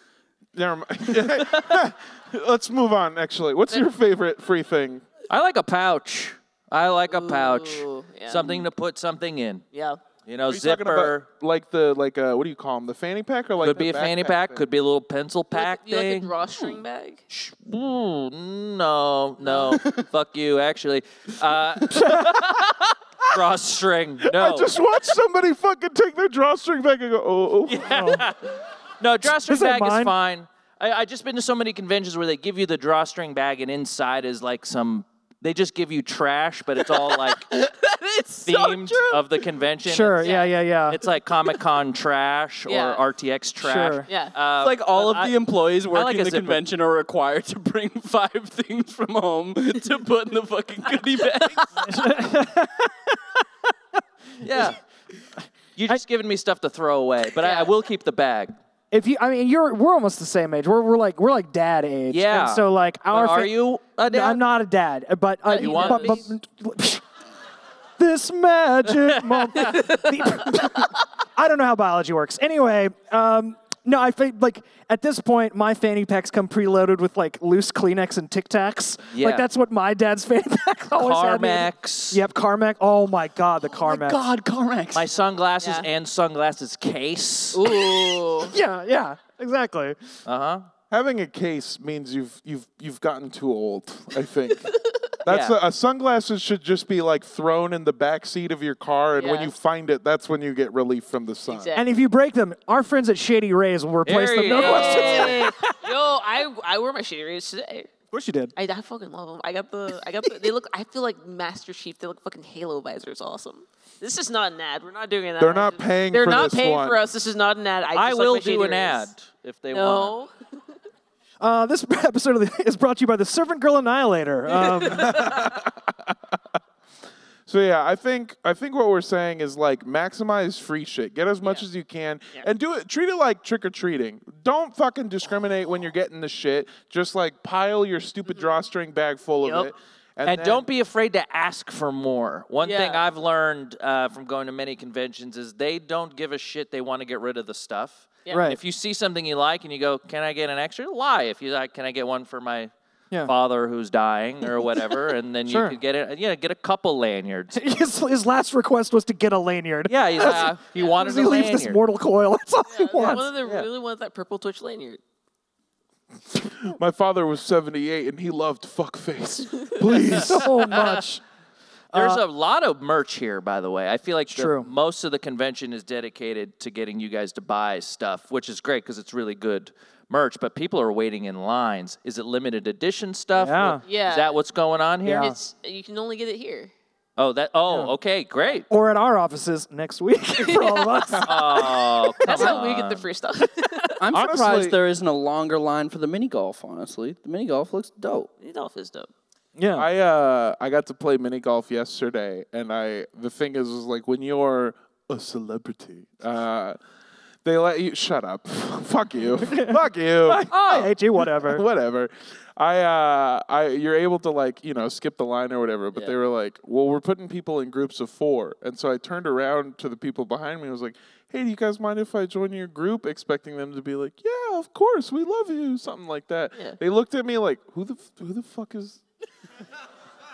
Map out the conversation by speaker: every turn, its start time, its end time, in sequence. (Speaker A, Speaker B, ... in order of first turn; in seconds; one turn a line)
Speaker A: 0.6-5.0
Speaker B: 5.3-9.6
Speaker C: 7.1-8.7
Speaker C: 9.7-10.0
Speaker B: 10.2-11.3
Speaker A: 10.5-14.6
Speaker B: 13.6-16.3
Speaker C: 15.5-17.2
Speaker B: 17.3-24.7
Speaker C: 19.4-19.8
Speaker D: 19.7-20.1
Speaker A: 24.2-28.1
Speaker B: 27.7-37.5
Speaker E: 27.9-28.2
Speaker E: 29.2-30.1
Speaker D: 37.0-39.3
Speaker B: 38.5-46.6
Speaker E: 39.9-41.0
Speaker C: 40.2-40.5
Speaker C: 42.7-43.0
Speaker E: 43.6-44.1
Speaker C: 44.1-44.4
Speaker D: 44.6-51.9
Speaker E: 51.8-53.4
Speaker B: 54.4-54.8
Speaker B: 55.8-58.5
Speaker C: 57.4-57.7
Speaker E: 58.9-67.0
Speaker B: 62.1-64.4
Speaker C: 65.5-66.3
Speaker B: 65.6-66.3
Speaker E: 68.0-84.3
Speaker B: 69.4-69.8
Speaker C: 69.6-70.6
Speaker B: 79.1-79.5
Speaker B: 81.0-82.2
Speaker D: 83.8-85.1
Speaker B: 84.9-87.8
Speaker C: 85.6-85.9
Speaker C: 87.5-88.5
Speaker E: 88.4-90.2
Speaker B: 90.3-90.7
Speaker A: 90.9-94.7
Speaker C: 94.7-94.9
Speaker A: 95.2-101.7
Speaker B: 95.3-95.6
Speaker C: 99.2-99.5
Speaker C: 101.5-101.9
Speaker E: 101.8-105.8
Speaker B: 104.0-105.5
Speaker C: 104.5-107.9
Speaker E: 108.1-108.5
Speaker C: 108.6-119.1
Speaker A: 115.4-117.0
Speaker B: 118.0-120.1
Speaker C: 119.7-120.3
Speaker E: 121.4-125.3
Speaker C: 124.6-125.5
Speaker A: 124.9-126.1
Speaker A: 127.5-140.7
Speaker B: 140.3-152.7
Speaker C: 142.6-143.0
Speaker E: 148.3-148.6
Speaker B: 153.2-157.6
Speaker E: 155.5-155.8
Speaker E: 157.5-163.3
Speaker B: 159.9-161.8
Speaker C: 162.7-165.0
Speaker B: 163.0-163.7
Speaker A: 166.3-170.5
Speaker E: 170.1-171.2
Speaker B: 170.2-171.0
Speaker E: 171.9-172.2
Speaker B: 171.9-185.3
Speaker E: 174.3-174.7
Speaker E: 183.3-183.8
Speaker C: 183.8-184.4
Speaker E: 185.0-185.4
Speaker C: 185.2-186.7
Speaker B: 187.2-188.7
Speaker E: 188.7-191.4
Speaker C: 190.4-191.7
Speaker B: 191.3-193.1
Speaker C: 192.2-194.0
Speaker D: 194.0-198.3
Speaker A: 194.1-194.8
Speaker C: 198.4-199.1
Speaker E: 199.6-199.9
Speaker A: 199.8-206.8
Speaker A: 207.4-229.0
Speaker E: 209.4-211.6